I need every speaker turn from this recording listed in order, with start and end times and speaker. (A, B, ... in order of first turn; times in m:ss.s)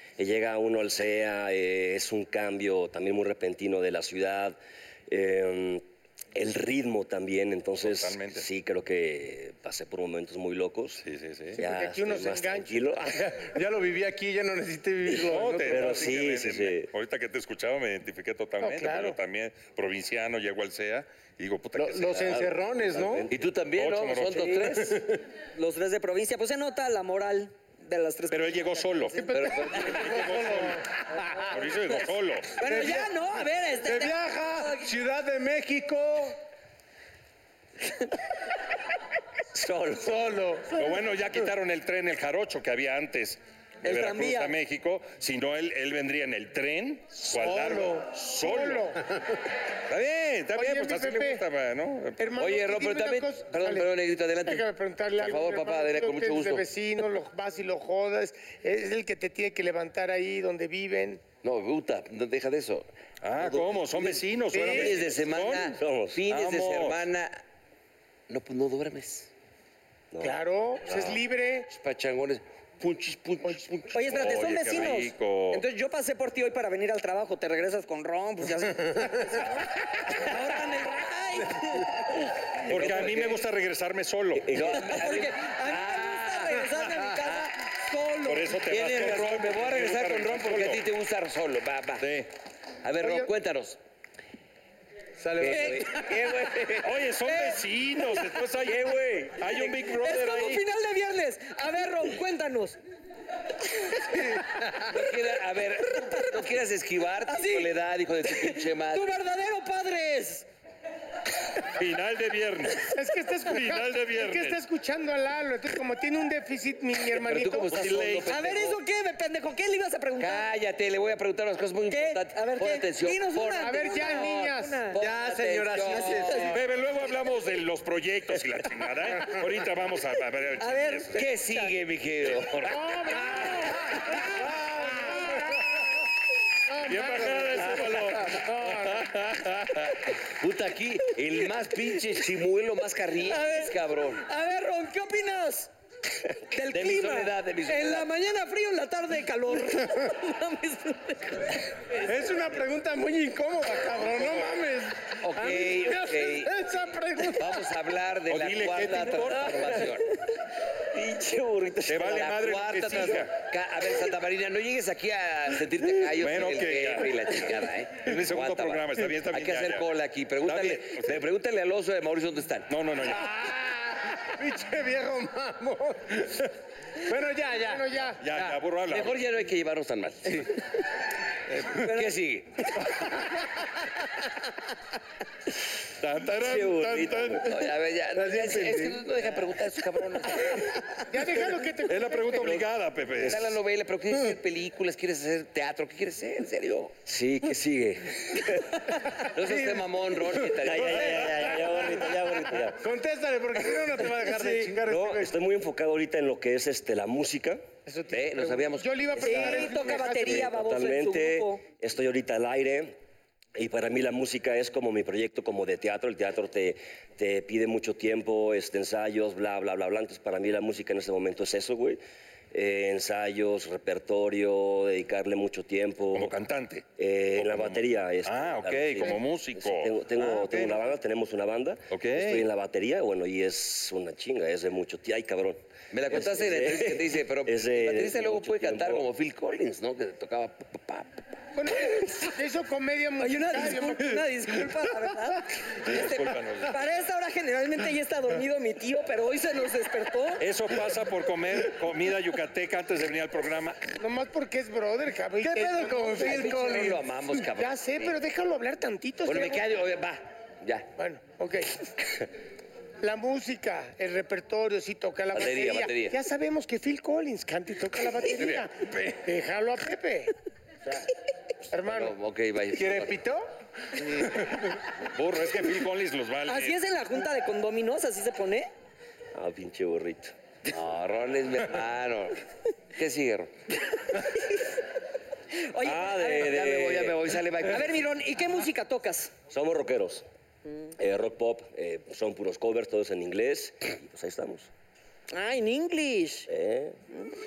0:00.2-0:11.0 A
0:07.8-0:08.4 B
0:11.0-0:11.6 B
0:11.6-0:13.1 C
0:11.6-0:13.4 A
0:13.2-0:16.2 D
0:15.3-0:22.4 B
0:15.4-0:16.9 A
0:18.6-0:19.2 C
0:21.8-0:23.3 D
0:22.2-0:23.4 A
0:23.3-0:25.1 E
0:23.7-0:24.9 B
0:24.6-0:25.2 D
0:25.5-0:29.2 F
0:28.3-0:30.8 B
0:29.2-0:30.7 C
0:29.3-0:29.8 E
0:30.1-0:31.5 D
0:31.4-0:32.6 B
0:32.6-0:34.9 F
0:32.6-0:33.3 D
0:33.8-0:36.4 D
0:39.6-0:40.1 A
0:40.0-0:40.9 D
0:40.6-0:48.9 B
0:43.8-0:44.6 F
0:47.4-0:48.0 D
0:48.3-0:49.0 C
0:49.9-0:52.2 B
0:50.6-0:51.4 C
0:52.2-1:01.2 C
0:52.4-0:56.7 E
1:01.4-1:02.9 E
1:03.2-1:05.8 B
1:03.4-1:07.4 E
1:04.6-1:04.9 D
1:05.8-1:06.2 A
1:06.3-1:07.0 B
1:08.3-1:09.3 E
1:10.1-1:10.4 A
1:10.2-1:11.7 C
1:11.7-1:14.2 E
1:13.4-1:13.7 C
1:13.9-1:22.2 F
1:14.1-1:15.6 B
1:22.6-1:24.7 B
1:22.7-1:23.4 E
1:24.4-1:25.1 A
1:24.5-1:27.5 E
1:24.7-1:28.6 F
1:28.2-1:30.8 B
1:28.6-1:32.1 E
1:32.0-1:32.3 B
1:32.8-1:33.8 E
1:35.2-1:35.8 D
1:35.4-1:36.9 E
1:35.5-1:36.1 F
1:36.8-1:40.6 B
1:37.2-1:37.6 F
1:39.6-1:42.8 F
1:44.9-1:49.2 E
1:47.3-1:47.7 F
1:48.3-1:50.4 F
1:51.7-1:52.9 B
1:52.8-1:57.8 C
1:53.4-1:54.6 B
1:57.1-1:58.8 E
1:57.7-1:58.4 B
1:58.3-2:00.5 F
2:00.2-2:04.3 E
2:01.9-2:05.0 F
2:03.6-2:04.9 C
2:04.9-2:06.4 E
2:05.0-2:06.6 D
2:05.8-2:06.6 F
2:06.5-2:11.2 B
2:10.6-2:11.7 F
2:11.1-2:13.4 E
2:12.6-2:14.3 C
2:14.5-2:15.3 D
2:14.8-2:15.6 C
2:16.7-2:19.1 C
2:16.9-2:20.0 B
2:20.4-2:24.2 E
2:23.3-2:25.7 F
2:26.5-2:31.6 F
2:26.6-2:28.1 E
2:32.0-2:37.6 D
2:35.2-2:40.1 E
2:38.3-2:40.0 B
2:40.9-2:42.2 A
2:41.9-2:43.4 B
2:41.9-2:52.7 E
2:46.0-2:49.9 B
2:50.4-2:51.2 B
2:52.7-2:53.4 B
2:53.0-2:58.0 D
2:57.6-2:58.2 C
2:58.2-2:59.2 B
2:58.4-3:00.6 E
3:01.7-3:02.8 E
3:06.0-3:07.6 B
3:06.4-3:07.6 A
3:07.4-3:10.8 E
3:08.1-3:09.1 D
3:11.1-3:12.6 C
3:11.8-3:13.6 B
3:13.2-3:16.9 E
3:17.1-3:18.9 A
3:19.3-3:22.0 E
3:19.4-3:25.4 D
3:20.6-3:22.8 A
3:24.6-3:27.6 A
3:27.9-3:30.5 C
3:28.1-3:30.0 E
3:29.2-3:31.6 F
3:30.1-3:33.0 A
3:33.6-3:42.0 A
3:42.5-3:46.4 A
3:46.1-3:50.9 B
3:47.0-3:59.0 A
3:51.9-3:52.5 B
3:55.9-4:01.2 E
4:01.6-4:04.2 C
4:03.2-4:10.4 F
4:05.8-4:06.8 B
4:10.4-4:13.9 B
4:14.0-4:19.8 C
4:15.4-4:17.0 D
4:16.2-4:18.2 E
4:19.2-4:20.9 E
4:21.0-4:21.9 C
4:23.0-4:30.4 C
4:25.3-4:26.2 E
4:28.4-4:28.6 E
4:31.7-4:32.1 C
4:31.8-4:33.2 E
4:32.7-4:34.5 D
4:35.1-4:36.8 B
4:36.4-4:38.7 F
4:39.3-4:40.3 A
4:40.7-4:42.4 E
4:42.9-4:43.5 E
4:45.5-4:46.7 F
4:45.8-4:47.2 A
4:45.9-4:48.0 E
4:47.6-4:49.3 F
4:49.5-4:50.3 A
4:51.0-4:54.7 A
4:55.3-4:56.5 F
4:56.5-4:57.0 A